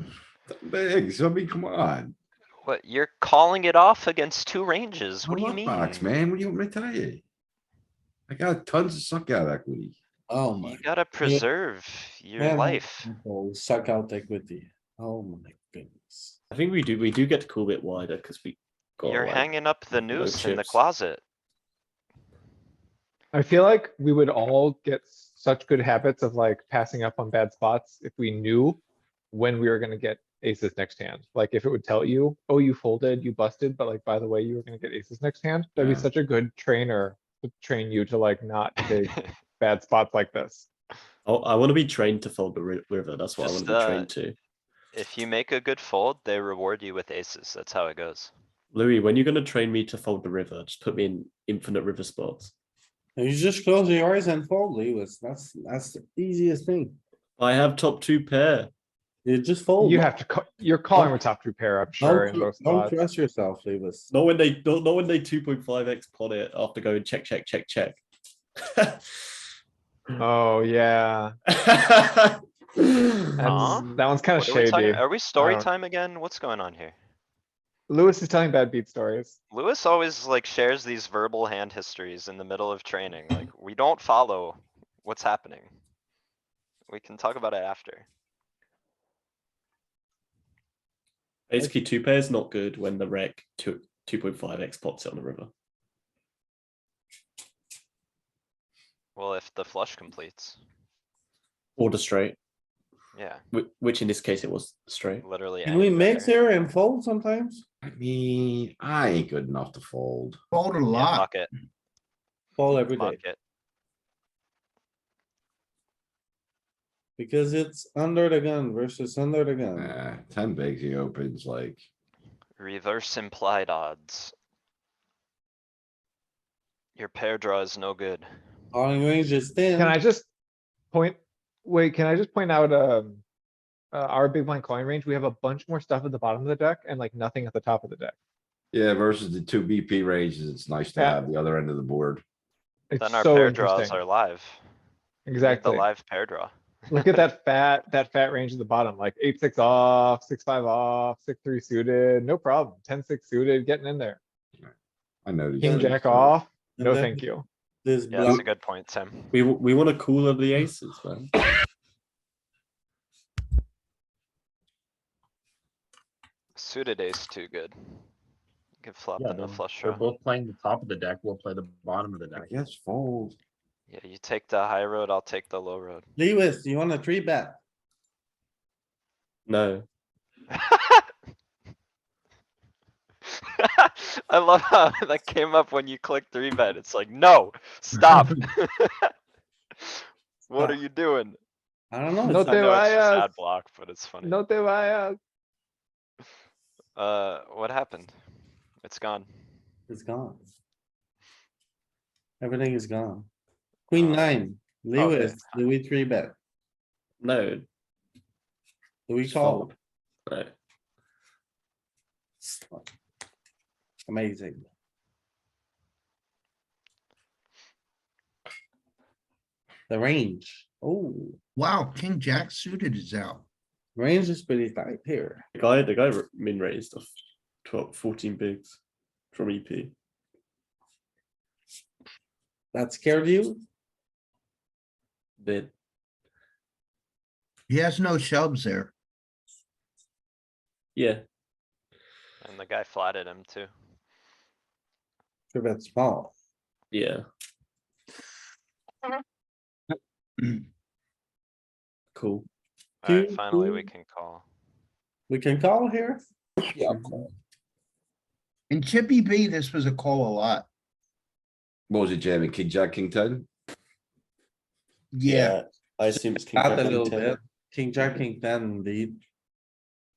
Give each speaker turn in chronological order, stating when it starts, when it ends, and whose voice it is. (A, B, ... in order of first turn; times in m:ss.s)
0:00.5-0:02.2 A
0:02.6-0:06.1 B
0:05.2-0:07.2 A
0:08.3-0:10.0 A
0:10.3-0:11.4 C
0:10.6-0:13.1 B
0:12.4-0:16.4 C
0:16.5-0:20.8 D
0:19.0-0:21.2 B
0:23.3-0:28.8 E
0:29.3-0:40.7 E
0:35.8-0:36.1 A
0:41.3-0:44.4 D
0:43.4-0:44.1 B
0:44.9-0:48.3 B
0:48.7-0:52.5 D
0:53.2-0:57.0 C
0:57.4-0:58.7 D
0:59.2-1:00.1 C
0:59.8-1:03.0 E
1:01.0-1:01.2 C
1:02.0-1:04.1 C
1:04.1-1:08.0 D
1:08.7-1:09.0 D
1:10.2-1:11.4 E
1:11.5-1:13.5 D
1:13.4-1:15.7 E
1:13.4-1:17.0 B
1:17.9-1:19.4 E
1:19.5-1:25.7 B
1:26.9-1:28.1 B
1:31.5-1:35.5 D
1:39.2-1:40.6 B
1:41.8-1:42.4 D
1:43.1-1:43.4 B
1:43.5-1:45.2 D
1:45.2-1:46.5 B
1:45.6-1:47.6 C
1:47.8-1:50.4 A
1:50.5-1:51.3 F
1:50.9-1:51.5 B
1:52.6-1:53.2 C
1:52.7-1:53.4 B
1:57.2-2:00.0 C
1:59.8-2:01.8 A
2:02.6-2:04.3 B
2:07.0-2:08.3 B
2:08.7-2:10.0 C
2:09.8-2:10.3 E
2:10.9-2:13.2 E
2:13.9-2:18.2 E
2:18.7-2:22.2 A
2:21.0-2:21.2 E
2:22.9-2:24.0 E
2:23.0-2:24.6 B
2:25.3-2:25.9 E
2:25.4-2:26.5 B
2:26.9-2:34.2 E
2:35.3-2:36.4 A
2:35.6-2:37.5 E
2:35.7-2:36.0 C
2:36.8-2:37.3 C
2:37.8-2:38.5 C
2:38.1-2:39.3 B
2:39.3-2:41.3 D
2:46.6-2:47.7 B
2:48.8-2:50.1 B
2:49.2-2:52.5 G
2:52.4-2:53.4 A
2:53.9-2:56.0 B
2:56.2-2:57.6 C
2:59.5-2:59.9 D
3:00.5-3:01.0 B
3:03.6-3:09.1 B
3:09.8-3:11.4 B
3:11.9-3:12.6 C
3:12.2-3:13.3 E
3:12.3-3:14.4 B
3:14.2-3:15.2 E
3:17.0-3:18.1 B
3:18.8-3:19.3 B
3:19.9-3:20.4 C
3:22.4-3:23.3 C
3:23.9-3:26.4 C
3:23.9-3:24.3 B
3:25.0-3:25.6 B
3:27.2-3:27.7 D
3:29.1-3:29.7 C
3:29.2-3:29.7 D
3:30.3-3:30.5 D
3:32.4-3:32.9 C
3:34.1-3:34.7 C
3:39.9-3:41.4 C
3:41.6-3:43.4 F
3:44.0-3:45.4 C
3:45.6-3:47.1 D
3:47.6-3:48.8 D
3:49.3-3:49.9 D
3:52.7-3:53.6 C
3:55.4-3:55.7 D
3:57.7-3:58.9 F
4:01.0-4:01.2 D
4:02.4-4:03.7 B
4:05.5-4:06.3 C
4:06.9-4:07.2 D
4:12.2-4:12.5 D
4:13.0-4:14.4 B
4:13.1-4:13.9 C
4:15.3-4:16.2 C
4:18.7-4:20.7 F
4:21.9-4:23.5 A
4:25.1-4:25.6 F
4:25.3-4:27.4 D
4:26.5-4:29.2 C